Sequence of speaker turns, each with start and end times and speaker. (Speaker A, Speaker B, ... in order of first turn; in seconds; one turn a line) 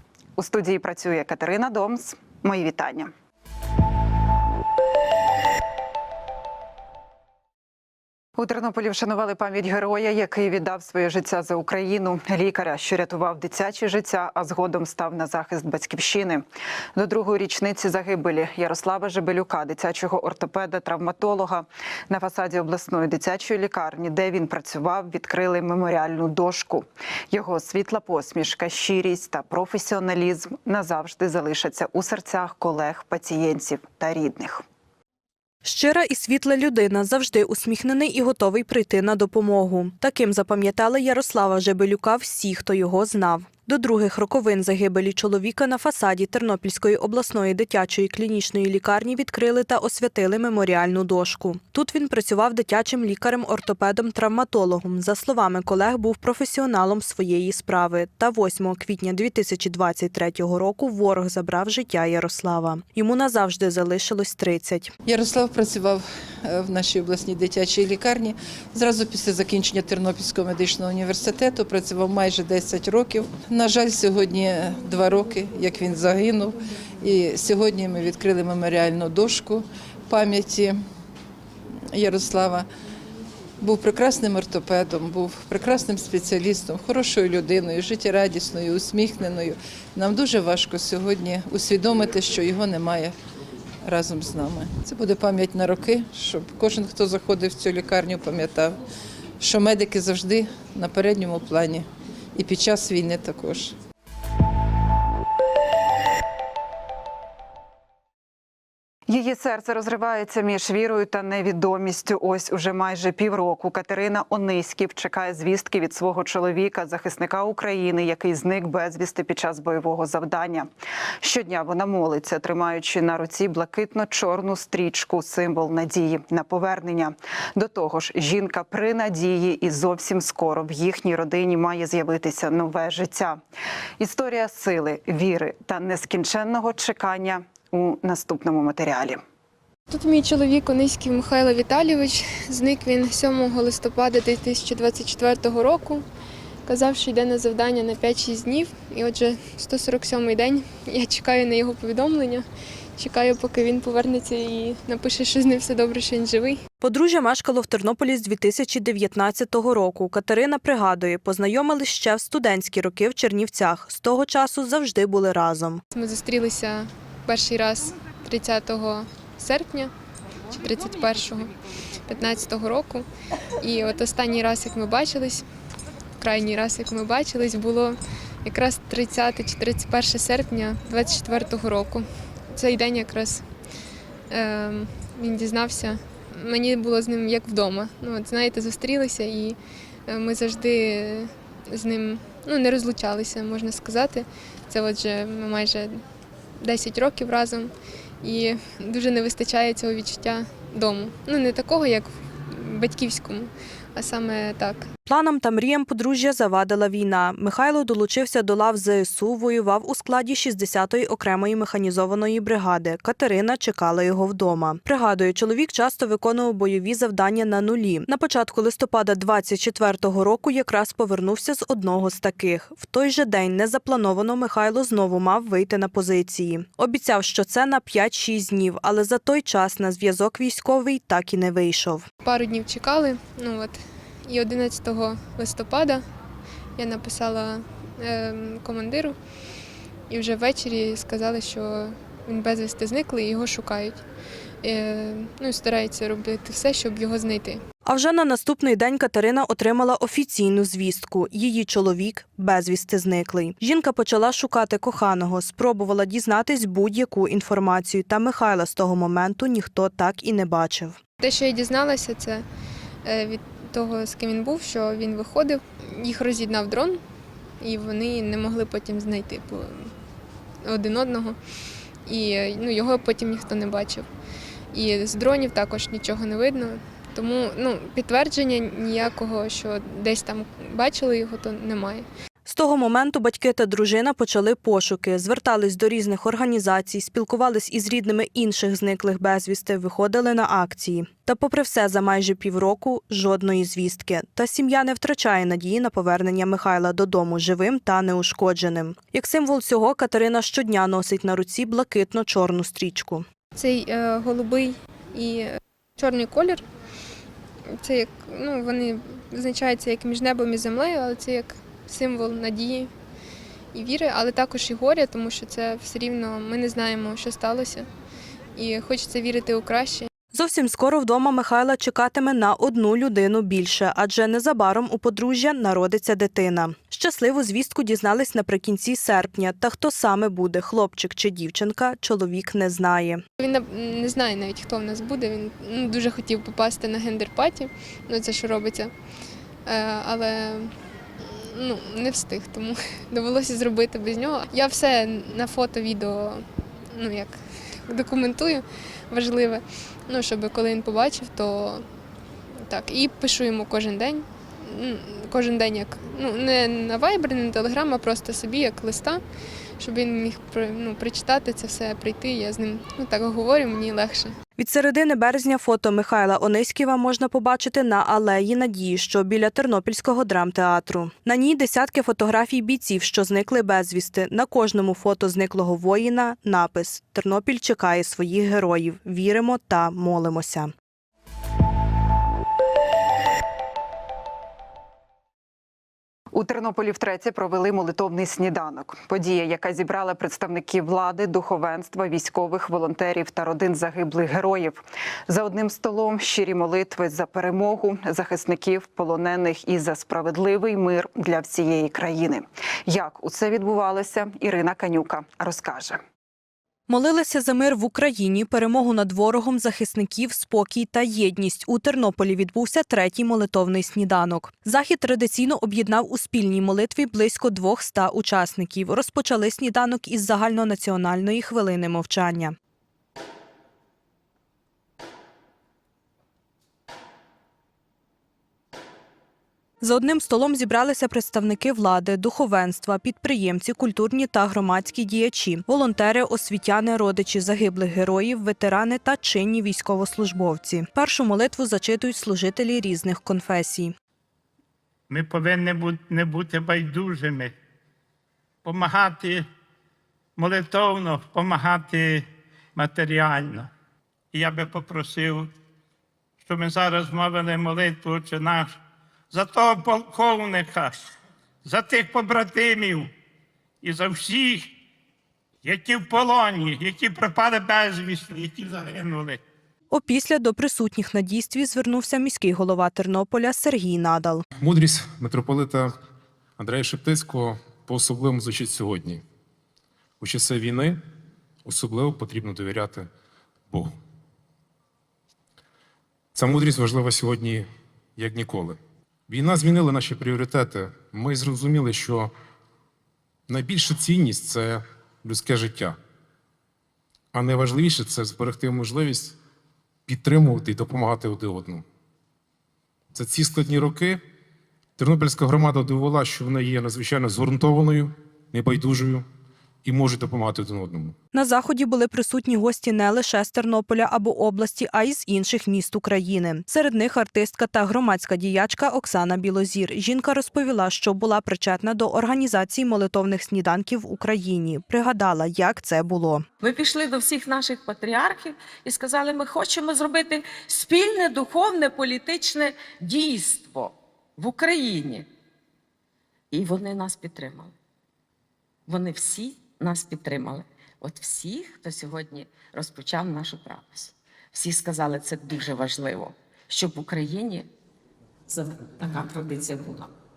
Speaker A: 0.4-3.1
Speaker A: 8.4-16.4
Speaker A: 16.9-34.6
Speaker B: 35.6-64.9
Speaker C: 65.1-80.8
Speaker C: 81.9-82.7
Speaker C: 83.6-93.1
Speaker C: 93.8-98.8
Speaker C: 99.4-103.7
Speaker A: 109.1-120.7
Speaker A: 121.2-133.4
Speaker A: 134.0-139.2
Speaker D: 139.9-146.0
Speaker D: 146.7-152.4
Speaker D: 153.0-156.6
Speaker B: 156.8-165.8
Speaker D: 165.9-169.9
Speaker D: 170.5-171.5
Speaker D: 172.1-173.1
Speaker D: 173.6-175.4
Speaker D: 176.2-183.5
Speaker D: 184.3-196.0
Speaker D: 196.6-204.9
Speaker B: 205.1-232.1
Speaker D: 232.2-236.0
Speaker D: 236.8-239.2
Speaker D: 240.1-244.0
Speaker D: 244.6-247.6
Speaker B: 247.8-261.0
Speaker D: 261.2-262.4
Speaker D: 263.0-267.0
Speaker D: 267.6-269.9
Speaker D: 270.6-271.4
Speaker D: 272.1-274.1
Speaker D: 274.7-282.1
Speaker B: 282.4-303.2
Speaker D: 303.5-306.6
Speaker D: 307.7-312.9
Speaker D: 313.7-317.9
Speaker D: 318.5-320.1
Speaker B: 320.3-333.2
Speaker D: 333.4-338.9
Speaker D: 339.6-351.8
Speaker D: 352.6-359.2
Speaker D: 359.8-364.3
Speaker B: 364.6-380.7
Speaker A: 386.3-406.0
Speaker B: 406.9-422.6
Speaker B: 429.8-443.9
Speaker E: 445.1-447.5
Speaker E: 448.6-449.5
Speaker E: 450.4-453.7
Speaker E: 454.3-455.5
Speaker E: 456.4-458.8
Speaker E: 459.3-463.1
Speaker E: 463.8-464.7
Speaker E: 465.6-469.4
Speaker B: 469.9-474.4
Speaker F: 474.6-475.9
Speaker F: 476.6-479.2
Speaker F: 480.2-481.0
Speaker F: 481.6-483.1
Speaker F: 483.7-483.9
Speaker F: 486.3-492.3
Speaker F: 493.5-496.0
Speaker F: 497.3-499.4
Speaker F: 500.1-501.8
Speaker F: 503.1-504.2
Speaker F: 505.0-509.2
Speaker F: 509.8-511.1
Speaker B: 511.3-526.5
Speaker G: 526.6-535.2
Speaker G: 536.5-537.7
Speaker G: 538.9-547.7
Speaker G: 548.5-550.1